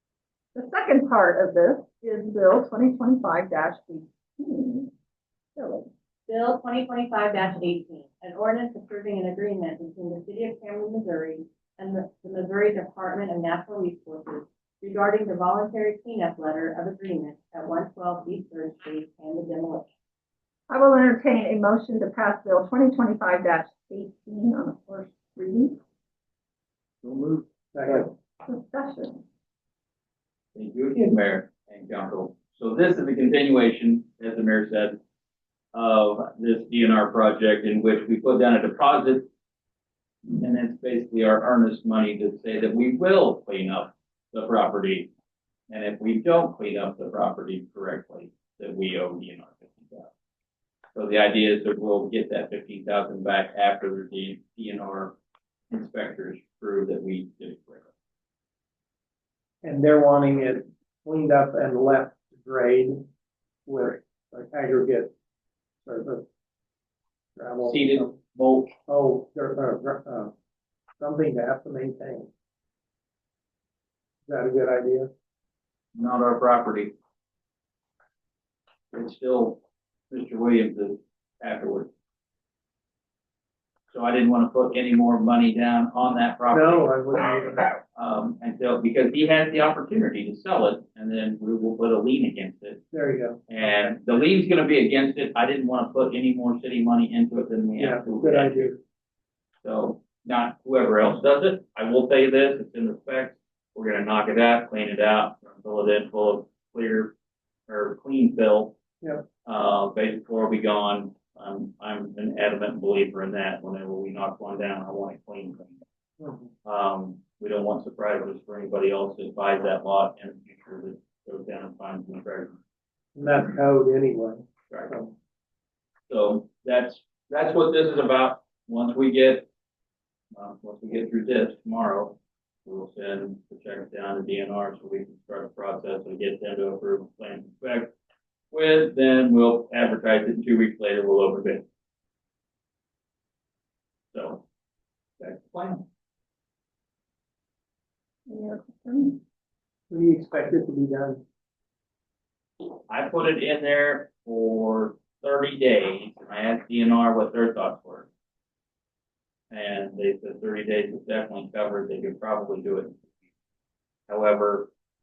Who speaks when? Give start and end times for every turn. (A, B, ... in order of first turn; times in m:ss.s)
0:00.5-0:04.9 A
0:05.5-0:05.9 A
0:06.3-0:19.9 B
0:20.7-0:25.8 A
0:27.0-0:27.4 C
0:27.7-0:28.1 D
0:28.4-0:29.2 A
0:30.5-0:35.0 C
0:35.7-0:39.3 C
0:40.4-0:45.1 C
0:45.7-0:50.1 C
0:50.9-0:55.1 C
0:55.7-0:57.8 C
0:59.6-1:03.0 D
1:03.6-1:05.1 D
1:05.8-1:06.2 D
1:07.4-1:08.2 D
1:07.6-1:08.7 C
1:08.9-1:10.3 D
1:11.0-1:12.3 D
1:14.2-1:15.1 D
1:15.9-1:16.9 C
1:18.9-1:19.6 C
1:20.1-1:21.9 C
1:23.9-1:27.0 C
1:26.5-1:27.7 D
1:27.9-1:32.9 C
1:32.9-1:33.9 D
1:33.5-1:38.7 C
1:37.8-1:38.8 D
1:39.6-1:47.1 C
1:47.7-1:48.7 C
1:49.4-1:55.8 C
1:56.2-1:56.5 D
1:56.6-2:02.6 C
2:03.2-2:05.1 D
2:06.1-2:09.5 C
2:10.3-2:17.9 C
2:18.5-2:21.6 C
2:24.1-2:24.4 C
2:25.2-2:25.8 C
2:28.3-2:29.2 A
2:29.9-2:31.2 D
2:32.9-2:38.1 C
2:39.5-2:43.0 C
2:44.1-2:44.7 C